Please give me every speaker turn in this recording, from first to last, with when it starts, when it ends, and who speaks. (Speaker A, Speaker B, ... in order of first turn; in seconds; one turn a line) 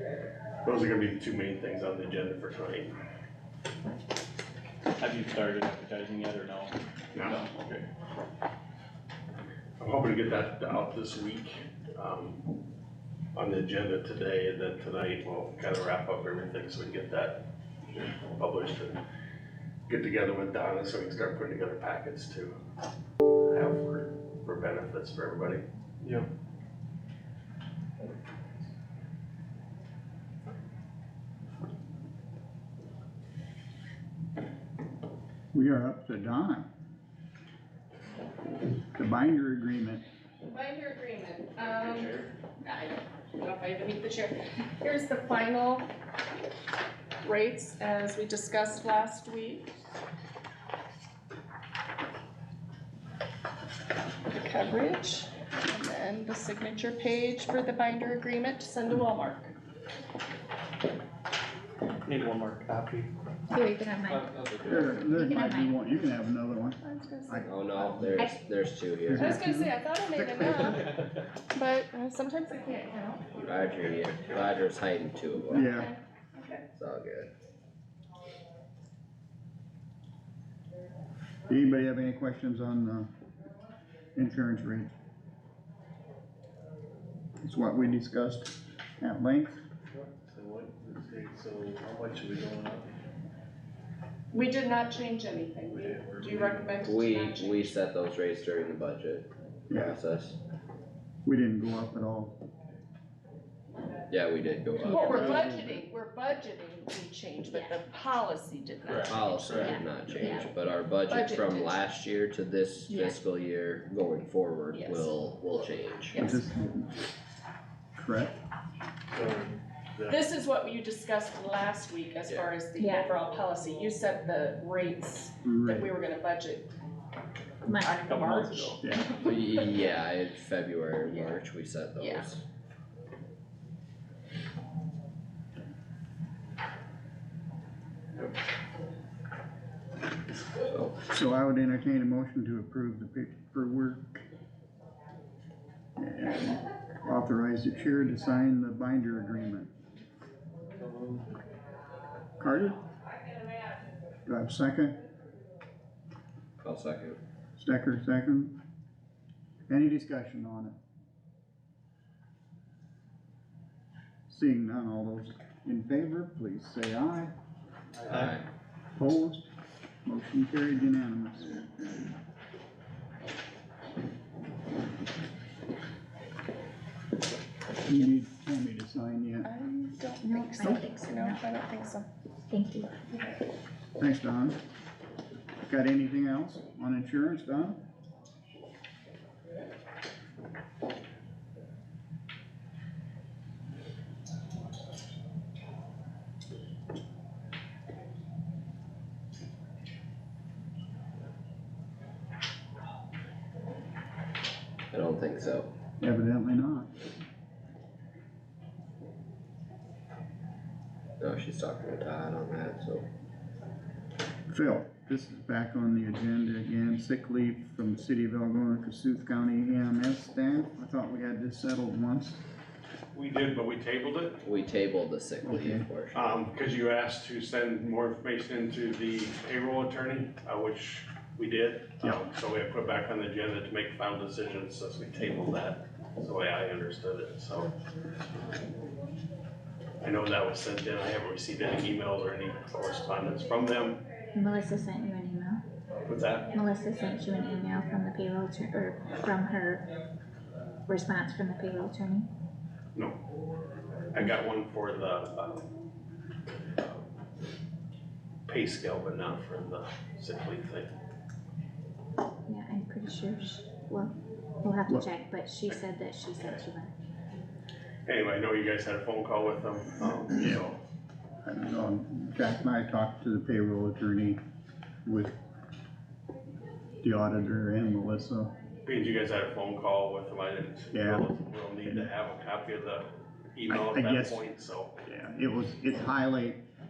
Speaker A: 0.6-2.9
Speaker B: 5.0-6.7
Speaker A: 7.1-7.4
Speaker B: 7.3-7.6
Speaker A: 9.8-12.4
Speaker A: 13.3-17.4
Speaker A: 18.4-19.0
Speaker A: 19.9-22.6
Speaker A: 23.5-25.6
Speaker C: 26.0-26.3
Speaker D: 35.5-36.7
Speaker D: 38.9-40.0
Speaker E: 40.4-45.9
Speaker A: 41.9-42.3
Speaker E: 47.2-49.7
Speaker E: 54.3-59.5
Speaker B: 62.1-63.1
Speaker F: 63.5-65.8
Speaker B: 64.4-65.0
Speaker D: 64.7-68.3
Speaker E: 66.8-67.5
Speaker G: 67.5-69.4
Speaker D: 69.1-70.9
Speaker E: 69.1-73.4
Speaker G: 73.4-75.8
Speaker D: 75.5-75.9
Speaker E: 75.5-76.6
Speaker G: 76.8-77.3
Speaker D: 81.5-83.1
Speaker D: 84.2-84.9
Speaker D: 87.4-89.6
Speaker C: 89.9-92.9
Speaker E: 94.3-97.8
Speaker C: 95.7-96.8
Speaker G: 96.8-100.4
Speaker D: 99.7-100.0
Speaker D: 101.2-102.4
Speaker G: 104.1-105.5
Speaker F: 104.9-105.5
Speaker E: 104.9-110.4
Speaker D: 105.2-105.8
Speaker G: 109.1-116.2
Speaker F: 109.5-110.5
Speaker E: 111.0-111.9
Speaker F: 112.9-113.2
Speaker E: 114.7-115.1
Speaker E: 116.1-116.5
Speaker D: 116.2-117.0
Speaker D: 118.0-118.3
Speaker C: 119.1-120.2
Speaker E: 120.1-126.7
Speaker F: 122.7-123.1
Speaker D: 125.4-125.9
Speaker F: 127.7-128.3
Speaker E: 127.8-129.5
Speaker B: 128.1-128.8
Speaker D: 128.8-129.1
Speaker G: 129.2-132.4
Speaker E: 132.0-132.3
Speaker G: 140.6-141.0
Speaker D: 141.1-144.2
Speaker D: 146.0-149.7
Speaker C: 150.7-151.3
Speaker D: 152.4-152.8
Speaker D: 154.3-155.0
Speaker G: 156.6-157.2
Speaker D: 157.6-158.6
Speaker D: 159.7-160.8
Speaker D: 164.3-167.3
Speaker G: 168.1-168.4
Speaker D: 169.0-169.5
Speaker D: 170.1-172.0
Speaker D: 177.8-179.5
Speaker E: 179.4-182.1
Speaker F: 180.2-181.4
Speaker F: 182.5-182.9
Speaker D: 184.0-184.6
Speaker D: 185.6-187.8
Speaker G: 204.9-205.7
Speaker D: 206.0-206.9
Speaker G: 211.2-213.1
Speaker D: 214.5-222.4
Speaker A: 223.1-224.4
Speaker G: 224.4-226.3
Speaker D: 225.4-225.8
Speaker A: 226.1-237.7
Speaker A: 240.0-244.0
Speaker F: 244.3-245.6
Speaker A: 246.1-246.5
Speaker F: 246.5-249.9
Speaker F: 250.9-252.3
Speaker A: 254.1-255.7
Speaker A: 258.5-260.9
Speaker F: 262.5-266.9
Speaker A: 268.1-270.8
Speaker D: 270.4-270.6
Speaker D: 271.4-274.4
Speaker D: 275.1-275.4
Speaker D: 277.0-278.5
Speaker A: 278.9-284.9
Speaker D: 280.9-281.3
Speaker D: 281.9-282.1
Speaker D: 283.7-284.4
Speaker D: 285.1-286.6